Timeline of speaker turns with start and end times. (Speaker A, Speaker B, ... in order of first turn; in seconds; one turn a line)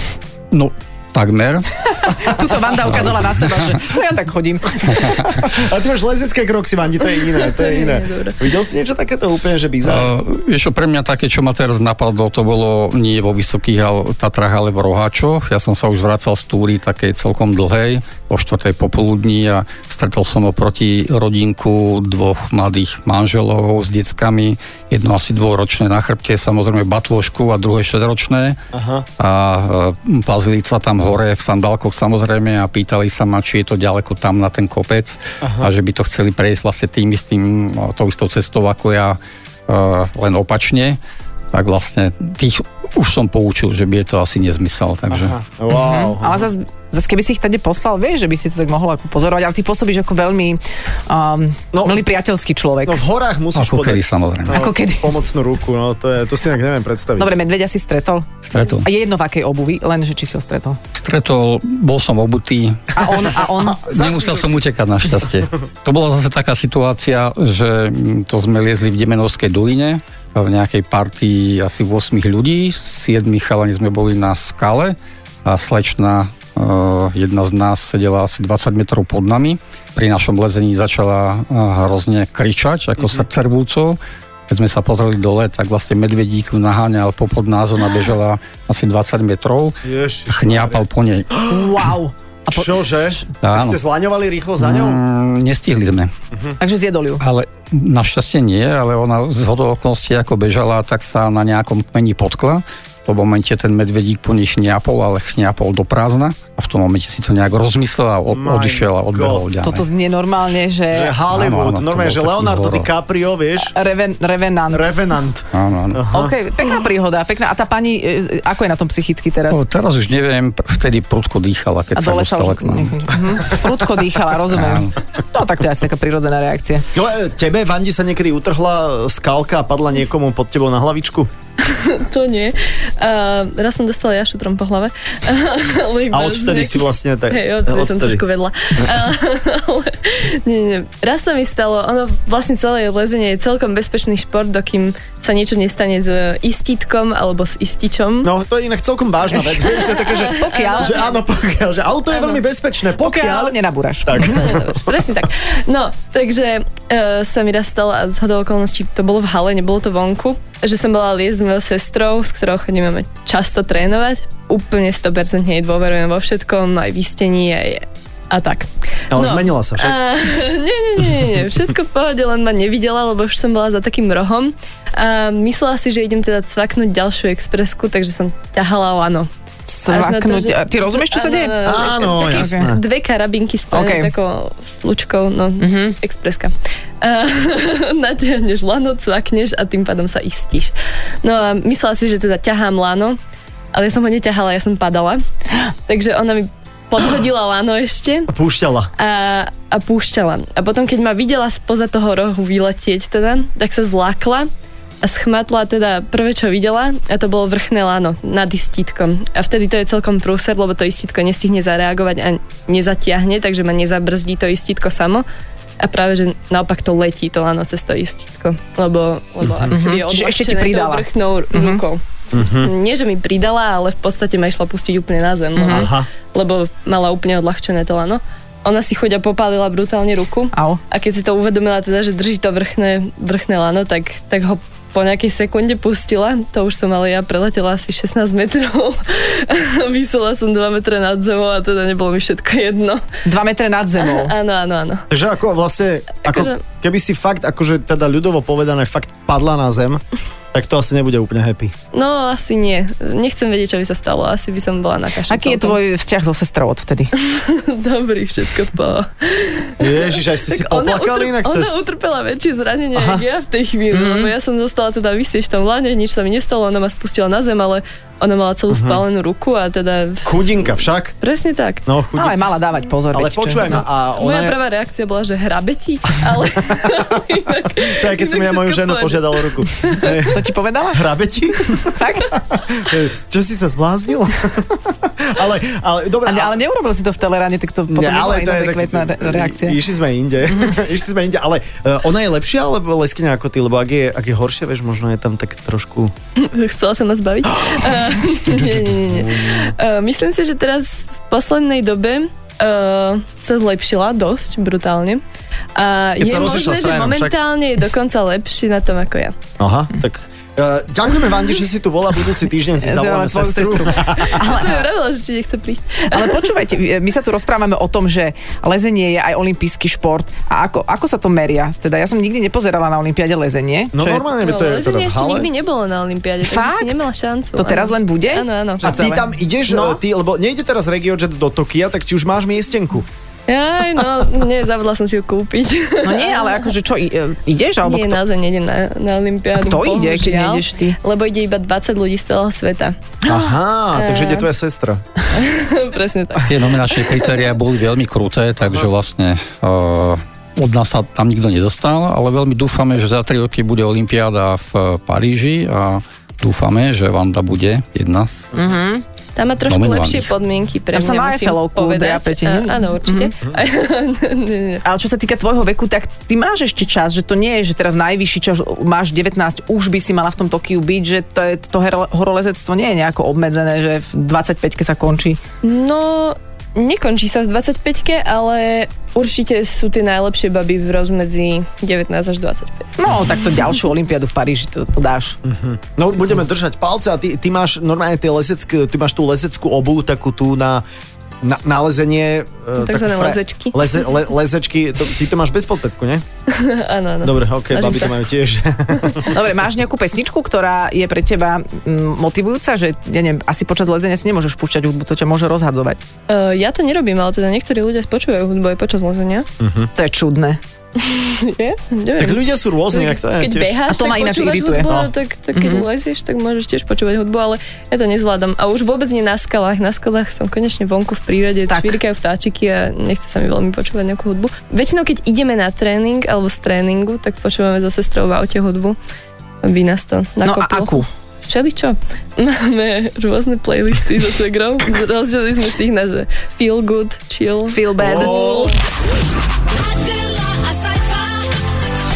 Speaker A: 0.5-1.7
Speaker B: 1.9-5.3
Speaker A: 2.8-3.8
Speaker A: 5.0-5.2
Speaker C: 5.2-10.1
Speaker D: 7.2-8.4
Speaker A: 9.8-28.6
Speaker C: 28.7-29.1
Speaker A: 29.2-41.0
Speaker C: 35.4-35.7
Speaker A: 41.5-45.4
Speaker C: 45.1-46.5
Speaker B: 45.7-53.0
Speaker C: 51.7-52.0
Speaker C: 52.9-57.3
Speaker A: 53.5-54.7
Speaker B: 54.5-55.2
Speaker B: 57.2-60.8
Speaker A: 58.5-58.9
Speaker A: 60.9-63.0
Speaker B: 63.0-64.0
Speaker C: 63.8-64.6
Speaker A: 63.8-91.3
Speaker C: 83.0-83.3
Speaker C: 89.8-91.8
Speaker B: 91.5-92.7
Speaker C: 92.5-95.0
Speaker A: 93.4-93.8
Speaker A: 94.6-96.1
Speaker C: 96.3-96.6
Speaker B: 96.6-97.2
Speaker A: 97.2-109.8
Speaker C: 108.3-109.5
Speaker B: 109.6-111.2
Speaker C: 110.9-113.7
Speaker A: 111.3-112.9
Speaker B: 113.6-114.9
Speaker C: 114.7-116.4
Speaker A: 115.5-116.1
Speaker B: 116.1-119.6
Speaker A: 119.5-123.0
Speaker B: 122.0-126.9
Speaker A: 124.5-125.0
Speaker C: 126.9-131.3
Speaker D: 131.6-148.3
Speaker C: 136.1-138.2
Speaker C: 148.2-154.9
Speaker B: 149.4-151.0
Speaker D: 149.8-151.1
Speaker B: 153.0-154.4
Speaker D: 154.2-179.3
Speaker C: 169.1-170.0
Speaker B: 179.7-182.7
Speaker D: 179.9-190.7
Speaker C: 181.6-182.8
Speaker B: 183.7-184.1
Speaker B: 185.6-186.0
Speaker D: 191.2-193.2
Speaker D: 193.7-195.2
Speaker D: 195.9-198.3
Speaker C: 198.3-198.9
Speaker D: 199.0-204.5
Speaker D: 205.0-215.3
Speaker D: 215.8-243.1
Speaker C: 219.4-219.7
Speaker B: 219.7-221.8
Speaker C: 222.3-222.7
Speaker B: 225.6-225.9
Speaker C: 225.7-226.1
Speaker B: 230.5-230.8
Speaker B: 243.2-244.3
Speaker D: 244.0-245.1
Speaker C: 245.1-250.0
Speaker D: 246.2-246.6
Speaker C: 250.5-251.7
Speaker D: 251.9-255.8
Speaker B: 255.3-257.1
Speaker D: 257.2-270.3
Speaker C: 259.8-261.7
Speaker C: 262.9-263.2
Speaker B: 263.9-264.3
Speaker C: 268.7-269.0
Speaker C: 270.2-271.1
Speaker D: 271.2-271.9
Speaker C: 271.9-272.4
Speaker B: 272.2-273.8
Speaker C: 273.1-274.6
Speaker D: 274.2-280.1
Speaker C: 277.8-286.6
Speaker B: 280.2-281.1
Speaker B: 281.7-282.4
Speaker B: 286.2-289.8
Speaker C: 287.9-296.1
Speaker D: 296.4-305.2
Speaker C: 298.4-299.7
Speaker D: 305.8-309.4
Speaker C: 306.2-307.3
Speaker C: 309.6-314.4
Speaker B: 312.8-314.9
Speaker D: 314.2-316.5
Speaker B: 316.1-324.3
Speaker C: 323.9-325.5
Speaker D: 324.4-328.8
Speaker B: 326.4-327.1
Speaker B: 327.6-330.0
Speaker C: 328.8-333.1
Speaker D: 333.5-336.7
Speaker B: 336.0-338.2
Speaker D: 337.8-343.1
Speaker B: 339.6-341.0
Speaker C: 343.2-345.0
Speaker D: 343.9-344.5
Speaker D: 345.3-347.4
Speaker A: 346.4-358.5
Speaker B: 358.5-359.0
Speaker D: 359.4-364.8
Speaker A: 359.7-360.3
Speaker B: 360.9-363.3
Speaker B: 364.8-375.4
Speaker D: 375.6-382.9
Speaker B: 383.0-385.4
Speaker C: 385.4-390.8
Speaker C: 391.4-396.2
Speaker D: 392.8-393.9
Speaker D: 396.5-398.2
Speaker C: 397.2-399.3
Speaker B: 399.2-406.0
Speaker D: 406.3-409.5
Speaker C: 409.6-409.9
Speaker B: 410.0-410.6
Speaker D: 411.0-429.0
Speaker C: 412.2-413.8
Speaker B: 413.9-415.0
Speaker C: 414.9-415.1
Speaker B: 415.6-415.9
Speaker B: 421.7-421.9
Speaker D: 429.6-438.7
Speaker B: 430.4-431.1
Speaker B: 437.7-438.7
Speaker C: 438.0-438.8
Speaker E: 439.6-441.6